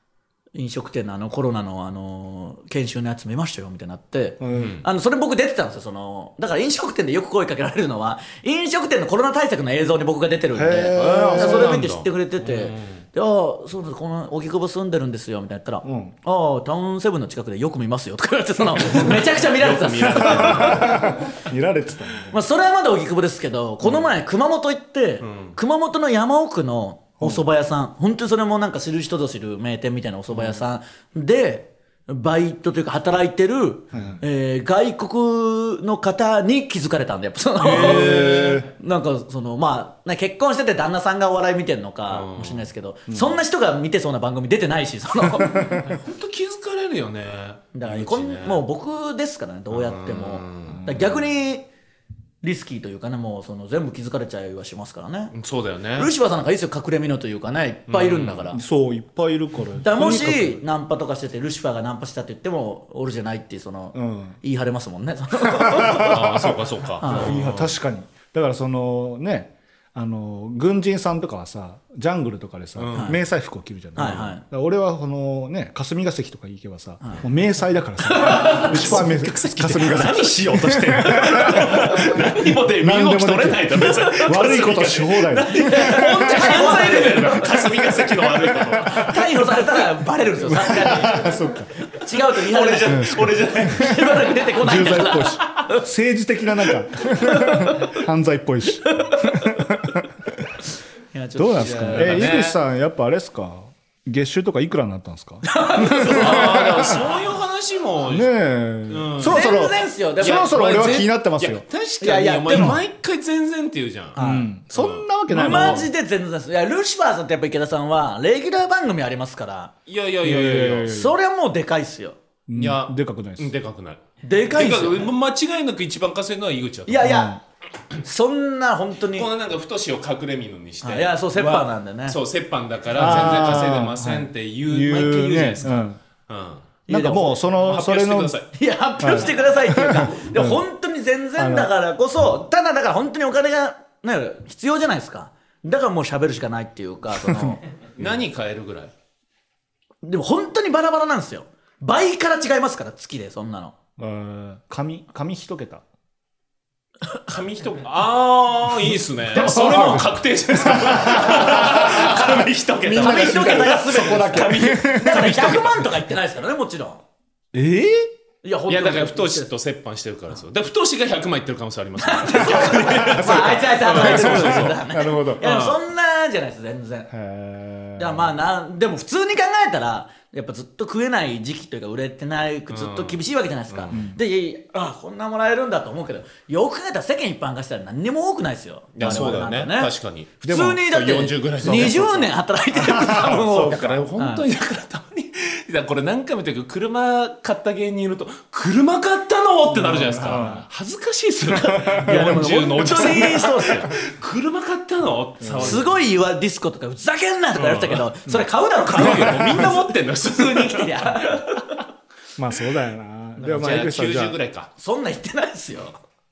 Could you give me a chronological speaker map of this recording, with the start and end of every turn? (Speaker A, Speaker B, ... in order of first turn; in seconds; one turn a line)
Speaker A: 0.6-21.0
Speaker B: 4.4-4.7
Speaker C: 4.5-4.8
Speaker B: 10.5-11.8
Speaker C: 11.3-13.1
Speaker B: 15.8-16.1
Speaker C: 19.3-21.1
Speaker B: 20.0-22.4
Speaker A: 22.3-45.9
Speaker B: 23.8-24.1
Speaker C: 25.2-25.6
Speaker B: 30.3-30.6
Speaker B: 33.9-34.2
Speaker B: 37.6-38.7
Speaker C: 37.6-38.7
Speaker C: 42.1-42.7
Speaker B: 45.5-45.8
Speaker C: 45.8-48.6
Speaker A: 47.7-51.7
Speaker C: 49.7-50.9
Speaker B: 50.7-51.1
Speaker A: 52.4-55.4
Speaker C: 55.3-56.1
Speaker A: 56.0-58.6
Speaker C: 57.9-58.5
Speaker B: 58.5-60.6
Speaker A: 59.8-66.2
Speaker B: 63.9-64.4
Speaker B: 65.6-82.0
Speaker C: 65.8-67.8
Speaker A: 67.0-67.5
Speaker C: 72.8-73.2
Speaker A: 74.0-74.4
Speaker A: 78.1-79.0
Speaker C: 78.2-89.2
Speaker B: 82.7-89.0
Speaker A: 85.3-87.7
Speaker A: 88.8-95.9
Speaker B: 90.4-91.7
Speaker C: 92.4-94.2
Speaker B: 92.9-100.5
Speaker A: 97.1-98.0
Speaker A: 98.8-99.9
Speaker A: 101.1-102.3
Speaker B: 101.4-107.0
Speaker C: 101.6-102.6
Speaker A: 105.4-107.0
Speaker C: 105.9-108.3
Speaker B: 108.1-111.7
Speaker C: 108.9-109.6
Speaker A: 109.2-110.5
Speaker C: 110.2-114.2
Speaker A: 112.0-112.8
Speaker B: 112.5-112.8
Speaker A: 114.2-114.5
Speaker B: 114.2-115.9
Speaker C: 114.7-115.8
Speaker A: 115.3-119.7
Speaker C: 119.9-121.0
Speaker B: 120.2-121.2
Speaker A: 120.8-122.2
Speaker B: 122.5-123.5
Speaker C: 122.6-127.1
Speaker A: 124.2-125.1
Speaker A: 126.9-127.4
Speaker B: 127.0-127.4
Speaker A: 128.0-129.3
Speaker C: 129.1-136.7
Speaker A: 130.8-132.2
Speaker B: 132.9-136.0
Speaker A: 136.9-137.4
Speaker B: 136.9-138.4
Speaker C: 137.4-138.5
Speaker A: 138.5-147.6
Speaker B: 139.0-140.6
Speaker B: 141.4-141.7
Speaker C: 148.0-148.9
Speaker A: 150.0-153.8
Speaker B: 154.0-155.8
Speaker C: 157.3-165.7
Speaker B: 159.3-165.7
Speaker A: 162.9-167.0
Speaker B: 167.5-168.1
Speaker A: 168.4-169.5
Speaker C: 168.7-174.8
Speaker A: 172.0-177.1
Speaker B: 172.8-175.4
Speaker C: 175.4-175.8
Speaker B: 177.1-178.3
Speaker A: 178.0-194.5
Speaker C: 182.7-184.0
Speaker B: 183.9-184.2
Speaker C: 188.9-192.3
Speaker B: 190.4-190.8
Speaker B: 192.7-193.8
Speaker C: 193.3-206.0
Speaker B: 199.7-200.7
Speaker B: 201.6-202.4
Speaker A: 201.8-203.9
Speaker B: 205.4-205.8
Speaker A: 205.6-211.8
Speaker C: 207.6-208.1
Speaker C: 208.9-211.4
Speaker B: 209.0-209.7
Speaker B: 212.4-214.4
Speaker C: 213.4-214.7
Speaker A: 214.8-216.0